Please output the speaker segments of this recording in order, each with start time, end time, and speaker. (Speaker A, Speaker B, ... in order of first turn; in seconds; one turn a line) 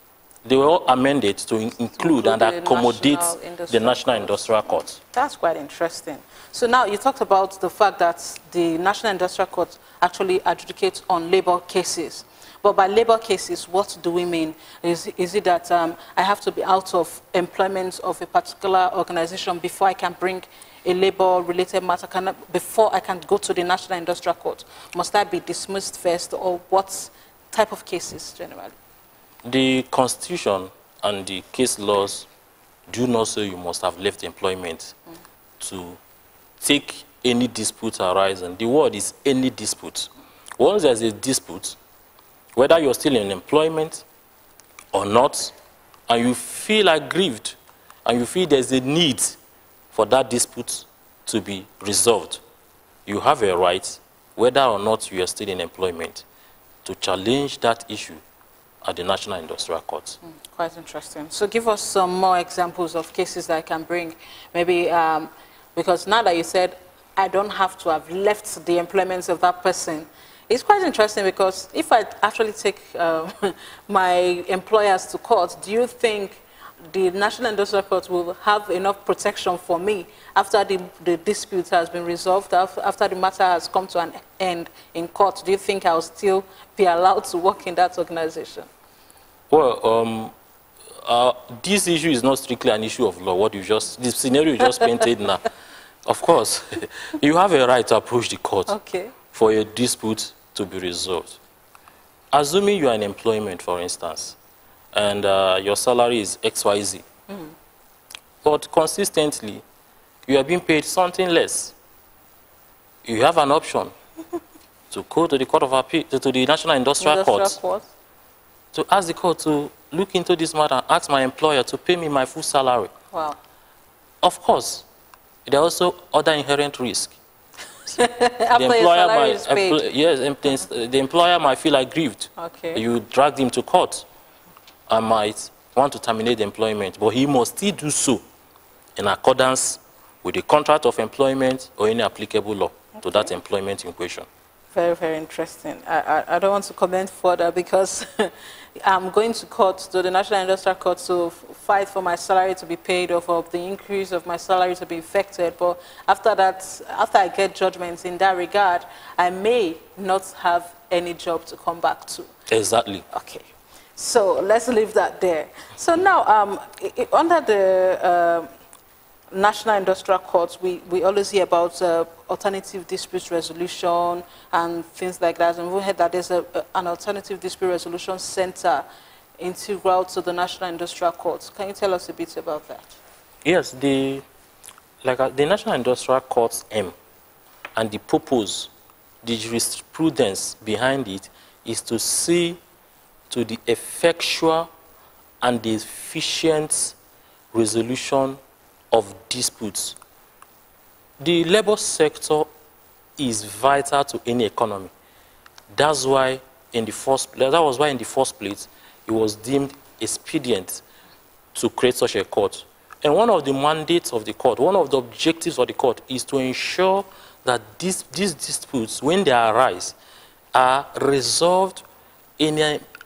Speaker A: 0.4-5.0
Speaker B: 2.0-28.7
Speaker A: 29.4-32.3
Speaker A: 32.9-34.9
Speaker A: 35.6-36.0
Speaker A: 36.6-41.8
Speaker A: 42.5-44.0
Speaker A: 44.9-45.5
Speaker A: 46.1-49.4
Speaker A: 49.9-52.4
Speaker A: 53.0-56.2
Speaker A: 56.8-58.2
Speaker A: 58.8-60.2
Speaker B: 60.2-88.7
Speaker A: 89.5-90.3
Speaker A: 91.0-95.5
Speaker A: 96.0-98.8
Speaker B: 98.7-99.1
Speaker A: 99.3-101.4
Speaker A: 102.3-104.4
Speaker A: 104.9-107.0
Speaker B: 107.3-107.5
Speaker A: 108.4-109.6
Speaker A: 110.3-111.7
Speaker A: 113.0-113.9
Speaker A: 114.9-117.6
Speaker B: 117.0-117.9
Speaker A: 118.7-122.9
Speaker A: 124.2-124.8
Speaker A: 125.5-127.2
Speaker B: 128.0-129.8
Speaker A: 128.5-134.1
Speaker B: 132.4-132.8
Speaker A: 134.9-138.2
Speaker A: 138.9-144.3
Speaker B: 143.0-143.3
Speaker B: 144.7-162.3
Speaker A: 162.5-163.0
Speaker B: 163.1-168.5
Speaker B: 169.3-178.8
Speaker B: 179.4-183.0
Speaker A: 183.4-184.2
Speaker A: 185.0-186.9
Speaker A: 187.8-188.7
Speaker A: 189.2-192.6
Speaker A: 193.3-194.7
Speaker A: 195.4-196.9
Speaker A: 197.5-198.4
Speaker A: 198.9-199.9
Speaker A: 201.2-202.5
Speaker A: 203.2-204.9
Speaker A: 205.7-210.8
Speaker A: 211.5-219.9
Speaker A: 220.5-221.8
Speaker A: 222.4-222.8